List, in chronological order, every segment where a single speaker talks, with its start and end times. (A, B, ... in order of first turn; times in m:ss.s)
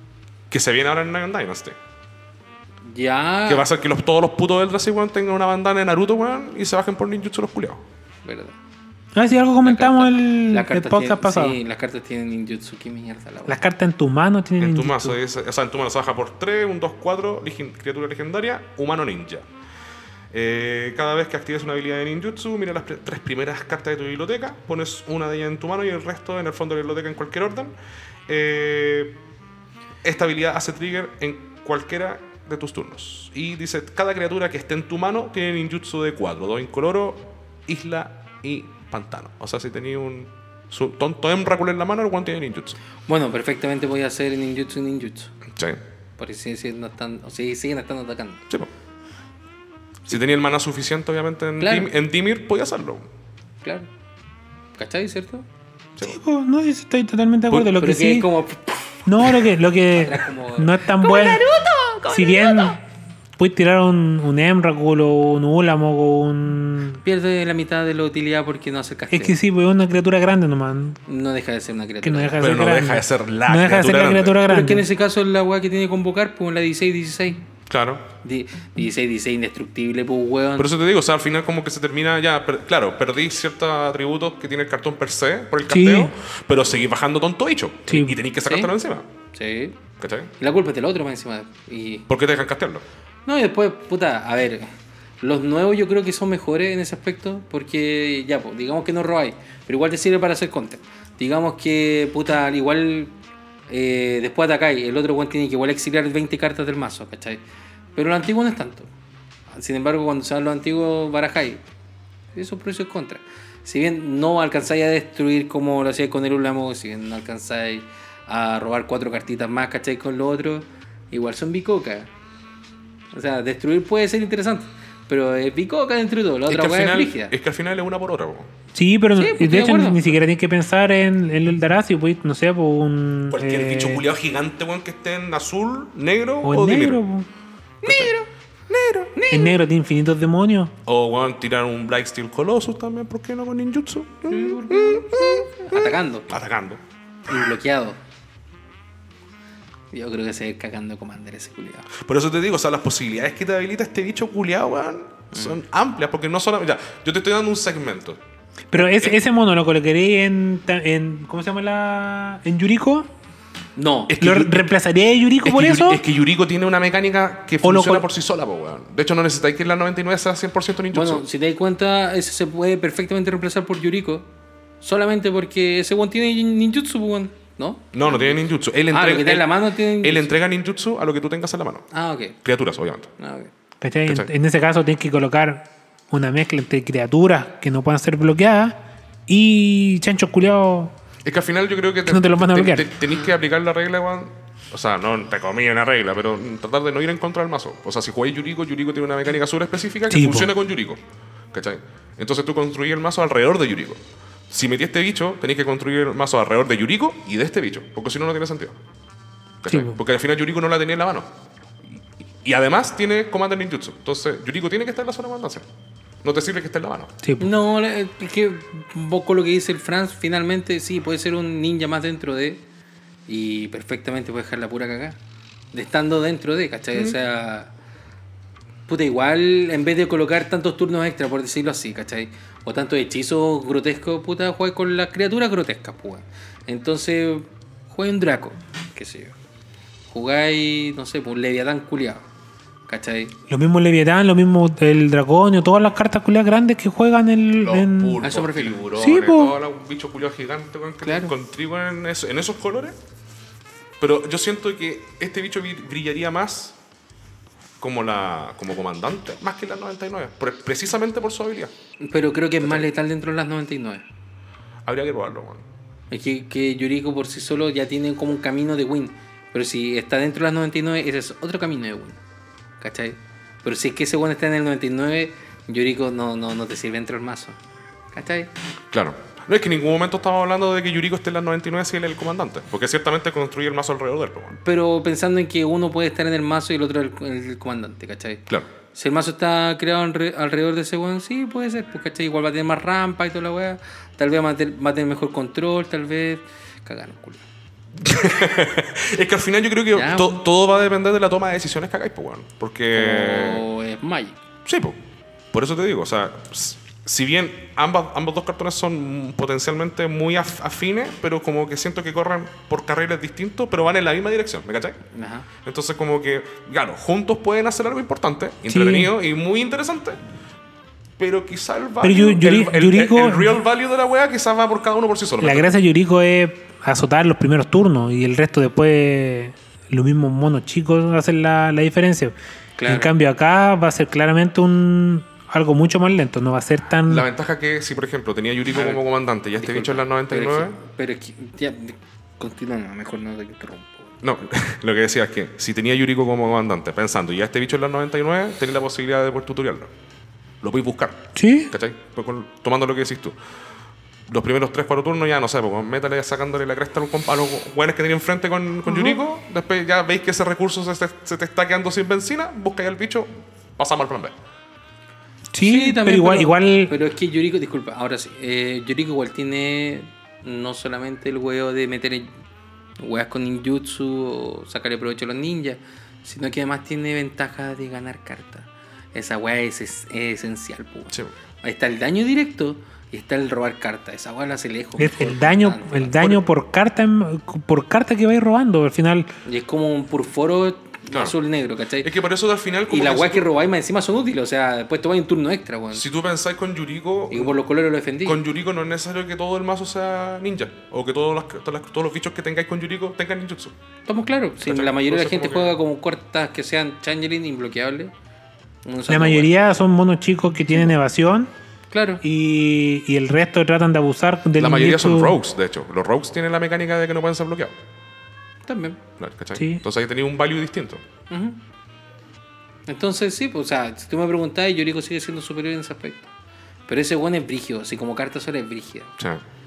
0:00.5-0:01.8 A
0:02.8-0:03.6 B
0:03.5-0:07.8 A
0:08.2-0:08.6 B
0:09.1-0:11.6 C
0:09.6-0:13.6 B
0:13.4-0:15.2 C
0:14.6-0:19.4 A
0:20.3-0:27.7 A
0:28.3-0:29.2 A
0:30.0-0:42.8 A
0:43.0-0:45.3 B
0:45.5-0:45.8 A
0:46.2-0:48.4 B
0:50.1-0:53.1 A
0:51.6-0:51.9 B
0:54.8-0:55.4 B
0:56.0-0:58.3 C
0:57.7-0:59.4 B
0:59.0-1:01.4 C
0:59.9-1:02.8 B
1:02.1-1:02.8 C
1:03.4-1:07.0 C
1:07.0-1:09.3 B
1:09.1-1:11.0 C
1:11.0-1:12.5 B
1:12.0-1:14.8 C
1:12.4-1:14.4 A
1:14.5-1:17.4 B
1:17.7-1:18.0 A
1:18.2-1:20.7 B
1:20.6-1:29.1 A
1:25.6-1:26.1 C
1:27.9-1:28.2 C
1:28.4-1:28.7 B
1:29.3-1:29.8 B
1:30.0-1:30.3 A
1:30.4-1:32.1 B
1:32.1-1:32.8 A
1:33.2-1:43.1 B
1:43.7-1:47.4 B
1:47.9-1:48.9 B
1:49.5-1:51.6 B
1:52.3-2:02.1 B
2:03.1-2:07.3 B
2:06.5-2:08.5 A
2:08.7-2:14.0 C
2:09.2-2:10.0 B
2:13.3-2:17.0 A
2:16.4-2:17.3 C
2:17.8-2:18.3 B
2:17.8-2:18.1 A
2:18.7-2:19.1 A
2:19.1-2:19.6 B
2:19.3-2:20.7 C
2:20.8-2:26.8 A
2:24.3-2:26.3 B
2:27.3-2:28.0 B
2:29.9-2:31.9 B
2:32.0-2:38.2 A
2:35.3-2:35.6 B
2:38.7-2:43.1 C
2:38.8-2:39.1 A
2:43.8-2:44.1 B
2:44.1-2:44.7 A
2:44.2-2:46.0 C
2:45.4-2:51.2 A
2:47.6-2:48.1 C
2:50.9-2:54.3 B
2:54.8-3:00.3 B
2:57.9-3:01.9 A
3:01.9-3:02.4 B
3:02.4-3:03.1 A
3:03.2-3:03.5 B
3:03.8-3:10.9 C
3:11.2-3:21.0 A
3:12.0-3:12.9 C
3:20.1-3:20.5 C
3:21.5-3:28.8 A
3:29.6-3:31.3 A
3:29.7-3:30.0 C
3:32.4-3:35.6 A
3:36.2-3:37.1 A
3:37.2-3:37.5 C
3:37.4-3:42.6 B
3:43.3-3:45.2 B
3:45.7-3:47.7 B
3:48.9-3:59.3 B
4:00.1-4:02.2 B
4:02.9-4:03.3 B
4:03.5-4:08.2 C
4:07.6-4:13.0 A
4:08.2-4:08.8 B
4:08.9-4:09.6 C
4:11.0-4:11.3 B
4:14.0-4:16.8 A
4:17.8-4:21.7 A
4:22.0-4:24.0 B
4:22.6-4:22.9 A
4:24.8-4:25.6 A
4:26.1-4:32.2 B
4:32.8-4:37.6 B
4:38.1-4:38.5 B
4:38.9-4:44.6 A
4:44.6-4:48.4 B
4:48.9-4:57.4 B
4:58.0-5:03.6 A
4:59.9-5:00.4 B
5:02.9-5:04.4 B
5:04.6-5:05.0 A
5:05.5-5:15.0 A
5:15.1-5:15.5 B
5:15.6-5:20.2 A
5:18.7-5:19.1 C
5:21.2-5:25.7 A
5:22.0-5:23.6 C
5:25.4-5:32.3 C
5:32.8-5:33.1 B
5:32.8-5:37.2 C
5:37.0-5:40.8 A
5:38.7-5:39.0 B
5:39.6-5:44.1 B
5:44.2-5:49.9 A
5:50.6-5:53.4 A
5:51.3-5:51.7 C
5:54.3-6:04.3 A
5:58.8-5:59.2 C
6:05.5-6:06.9 C
6:05.6-6:12.3 B
6:13.0-6:26.4 B
6:25.0-6:29.3 C
6:29.4-6:32.1 B
6:31.1-6:31.4 A
6:32.0-6:33.5 A
6:32.9-6:36.0 B
6:35.9-6:37.6 A
6:37.3-6:38.4 B
6:38.2-6:43.7 A
6:44.1-6:48.1 B
6:44.6-6:45.8 A
6:48.8-6:49.5 B
6:49.1-6:51.5 C
6:51.9-6:52.2 B
6:52.2-6:55.4 C
6:54.6-6:57.7 A
6:58.6-6:59.0 B
6:59.2-7:01.0 A
6:59.5-6:59.8 C
7:01.3-7:01.6 B
7:02.9-7:06.3 B
7:06.9-7:09.1 B